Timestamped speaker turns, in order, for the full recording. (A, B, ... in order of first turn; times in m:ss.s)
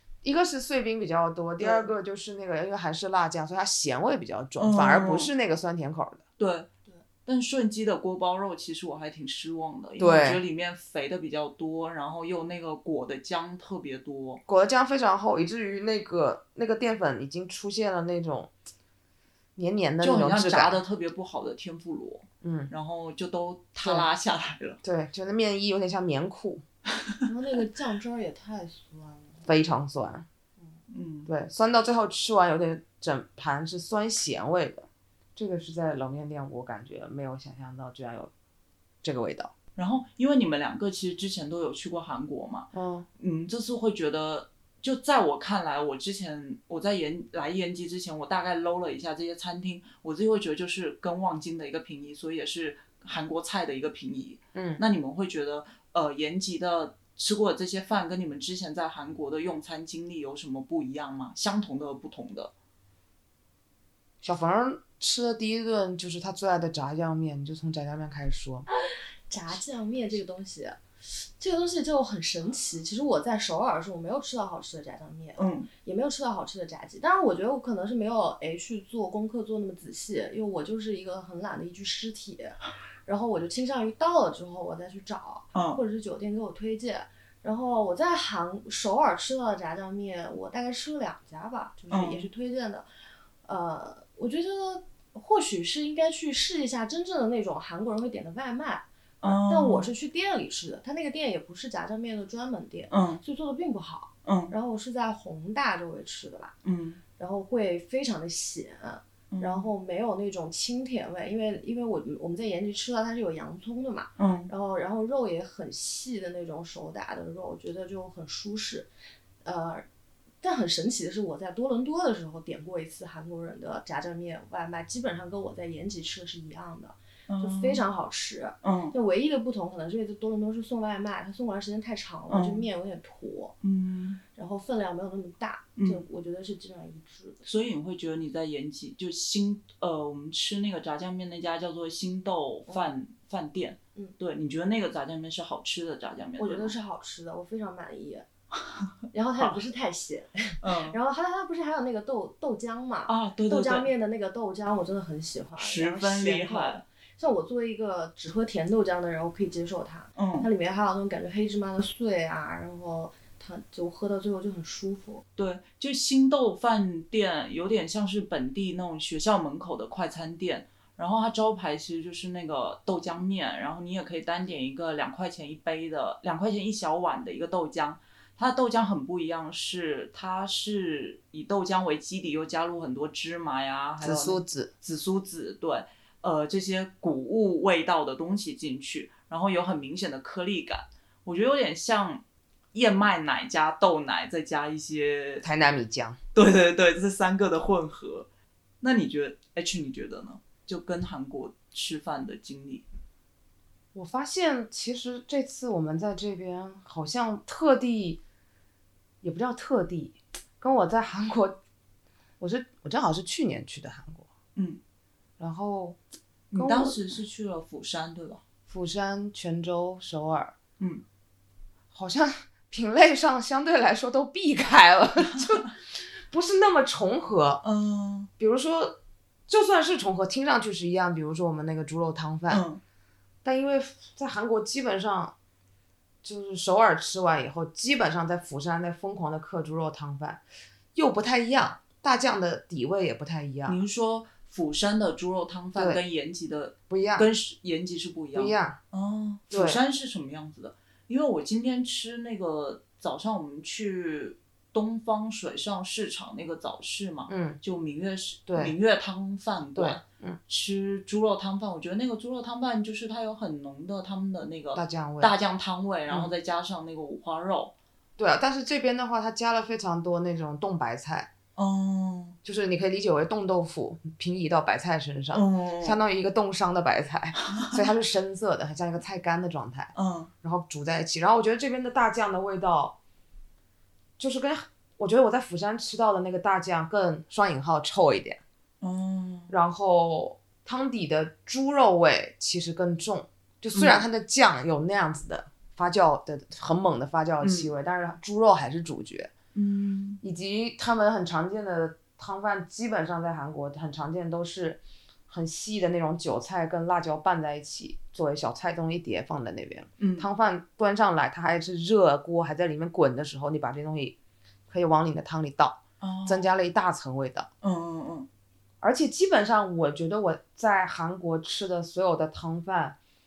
0:00.2-0:06.2 A
0:01.6-0:01.9 B
0:04.6-0:05.3 B
0:06.4-0:06.7 B
0:07.2-0:14.4 B
0:10.0-0:10.4 A
0:14.5-0:18.5 A
0:19.6-0:20.8 A
0:20.0-0:24.8 B
0:22.4-0:22.7 A
0:23.8-0:24.1 A
0:24.8-0:26.6 A
0:27.2-0:29.4 C
0:29.4-0:30.2 A
0:30.9-0:31.3 B
0:31.3-0:38.3 A
0:39.0-0:39.5 A
0:39.8-1:02.5 B
0:42.7-0:43.1 A
0:54.5-0:54.8 A
1:04.2-1:08.7 A
1:09.3-1:32.9 C
1:15.4-1:15.7 B
1:25.5-1:25.8 B
1:31.9-1:32.3 B
1:33.4-1:46.5 C
1:39.2-1:39.9 B
1:42.9-1:43.2 B
1:44.2-1:44.5 B
1:46.6-1:47.0 B
1:47.2-1:58.9 C
1:49.3-1:49.7 B
1:54.2-1:54.5 B
1:59.4-1:59.8 C
2:00.4-2:13.6 C
2:07.3-2:07.8 B
2:08.6-2:08.9 B
2:12.3-2:12.7 B
2:13.6-2:14.2 B
2:14.3-2:17.4 C
2:15.8-2:16.0 B
2:17.4-2:26.7 B
2:26.4-2:28.2 C
2:29.1-2:45.2 C
2:30.6-2:31.0 B
2:33.1-2:33.9 B
2:35.6-2:36.8 B
2:40.2-2:40.5 B
2:45.4-3:15.4 B
3:04.0-3:04.7 A
3:15.4-3:16.2 A
3:16.3-3:18.3 B
3:18.8-3:22.8 B
3:23.9-3:28.2 A
3:29.2-3:31.6 A
3:32.4-3:34.3 A
3:35.4-3:36.0 A
3:36.5-3:38.4 B
3:36.5-3:37.0 A
3:38.7-3:40.5 A
3:41.9-3:47.6 A
3:47.6-3:48.3 B
3:48.4-3:52.6 A
3:52.5-3:52.8 B
3:53.4-3:55.3 A
3:56.2-4:00.4 A
4:00.9-4:03.8 A
4:03.7-4:27.7 B
4:05.7-4:06.0 A
4:06.9-4:07.3 A
4:08.3-4:08.8 A
4:09.5-4:09.8 A
4:17.3-4:17.6 A
4:18.5-4:18.7 A
4:19.8-4:20.4 A
4:24.7-4:25.3 A
4:28.2-4:31.3 A
4:31.6-4:32.4 B
4:32.4-4:39.9 A
4:35.3-4:36.0 B
4:37.4-4:37.8 B
4:39.9-4:40.3 B
4:40.4-4:43.0 A
4:44.2-4:48.4 A
4:48.8-4:49.5 B
4:49.5-4:59.3 A
4:53.7-4:54.0 B
4:57.4-4:57.7 B
4:59.5-5:00.2 B
5:00.2-5:14.2 A
5:10.0-5:10.3 B
5:14.7-5:17.5 A
5:16.0-5:16.5 B
5:17.6-5:18.3 B
5:18.8-5:23.0 A